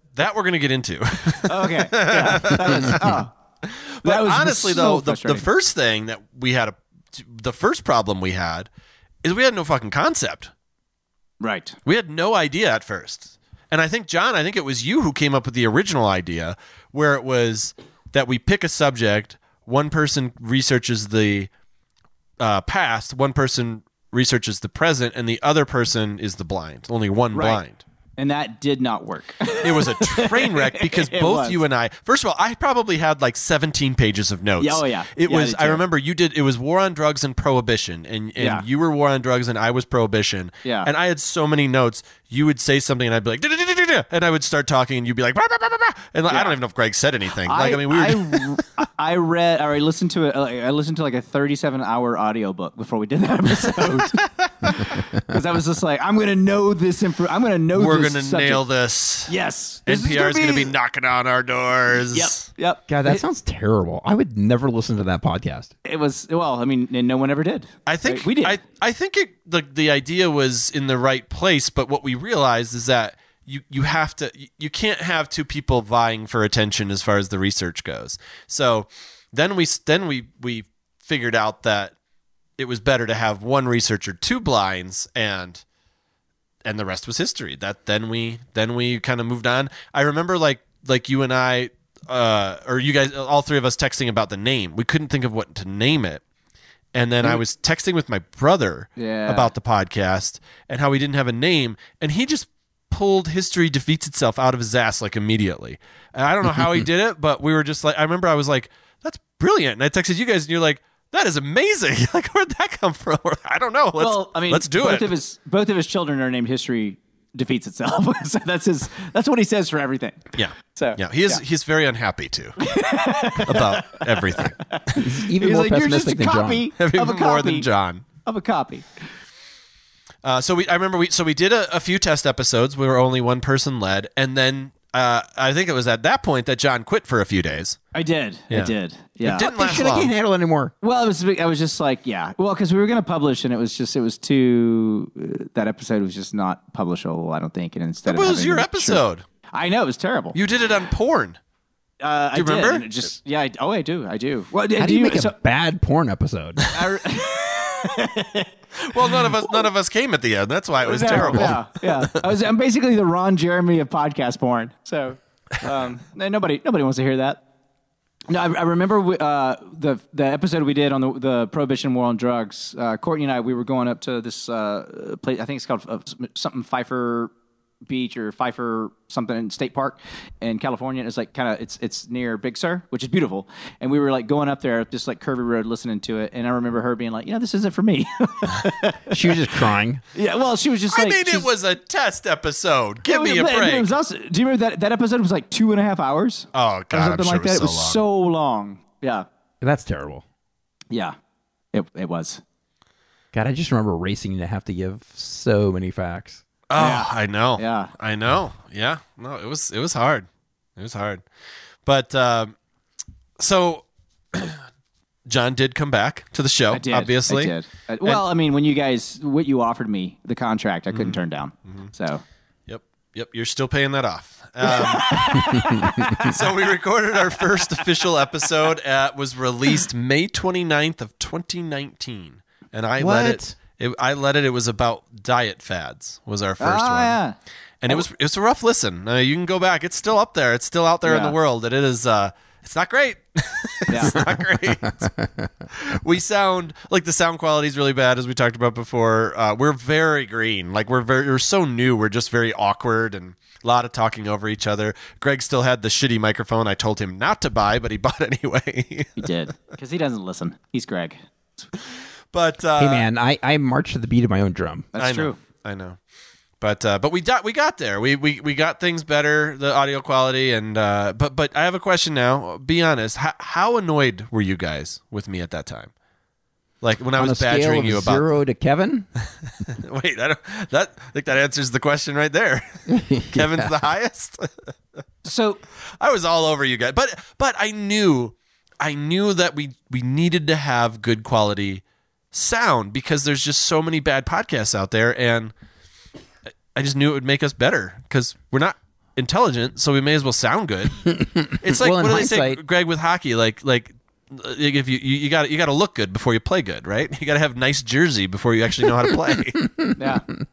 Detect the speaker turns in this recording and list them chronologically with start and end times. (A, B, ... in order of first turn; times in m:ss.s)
0:00.1-0:08.7 A
0:01.5-0:03.3 B
0:04.0-0:05.4 B
0:09.2-0:10.5 A
0:11.4-0:11.8 B
0:11.8-0:21.5 A
0:22.4-0:27.8 A
0:27.3-0:27.6 B
0:28.2-0:31.6 B
0:29.6-0:48.6 A
0:34.6-0:35.8 B
0:38.4-0:38.6 B
0:40.6-0:40.9 B
0:46.3-0:46.6 B
0:47.4-0:58.6 B
0:53.9-0:54.8 A
0:57.7-0:59.3 A
0:59.3-1:00.7 B
0:59.9-1:02.5 A
1:02.1-1:03.2 B
1:02.9-1:05.7 C
1:05.8-1:08.6 B
1:07.9-1:21.9 A
1:22.6-1:25.6 A
1:26.6-1:36.2 A
1:36.9-1:55.1 A
1:39.0-1:39.5 B
1:54.0-2:01.4 B
2:00.4-2:02.6 A
2:02.6-2:07.7 B
2:03.4-2:04.6 A
2:05.0-2:06.7 C
2:06.8-2:08.0 A
2:08.2-2:08.9 B
2:10.2-2:17.8 A
2:17.9-2:19.5 B
2:19.2-2:20.1 A
2:19.3-2:20.7 C
2:20.8-2:30.4 B
2:28.1-2:29.2 A
2:30.3-2:31.4 A
2:32.0-2:35.3 B
2:32.3-2:32.9 A
2:34.8-2:36.7 C
2:36.7-2:39.6 B
2:38.9-2:42.2 A
2:40.8-2:47.4 B
2:48.3-2:57.3 B
2:57.9-3:09.4 B
3:09.1-3:10.0 C
3:10.1-3:11.5 B
3:10.9-3:14.0 A
3:13.0-3:19.3 B
3:16.5-3:18.0 A
3:19.6-3:20.2 C
3:21.7-3:22.4 B
3:23.3-3:26.4 C
3:26.7-3:30.3 A
3:26.8-3:27.9 B
3:30.8-3:31.2 A
3:31.8-3:32.6 A
3:33.4-3:34.6 A
3:35.3-3:38.2 A
3:36.7-3:42.2 B
3:40.9-3:41.9 A
3:42.7-3:57.2 A
3:44.6-3:46.5 B
3:47.4-3:47.9 B
3:53.0-3:53.6 C
3:56.6-3:57.4 B
3:57.8-4:05.1 A
4:01.0-4:01.4 B
4:03.9-4:04.2 B
4:04.2-4:05.5 C
4:05.7-4:19.3 A
4:19.2-4:21.7 B
4:22.3-4:23.1 A
4:22.8-4:24.9 C
4:24.9-4:25.4 B
4:25.0-4:26.0 A
4:26.6-4:35.9 A
4:36.8-4:38.2 A
4:37.2-4:39.1 C
4:39.6-4:44.7 A
4:42.9-4:43.8 C
4:45.2-4:45.6 B
4:46.0-4:55.5 A
4:56.8-5:09.7 A
5:01.0-5:02.6 C
5:10.0-5:10.3 B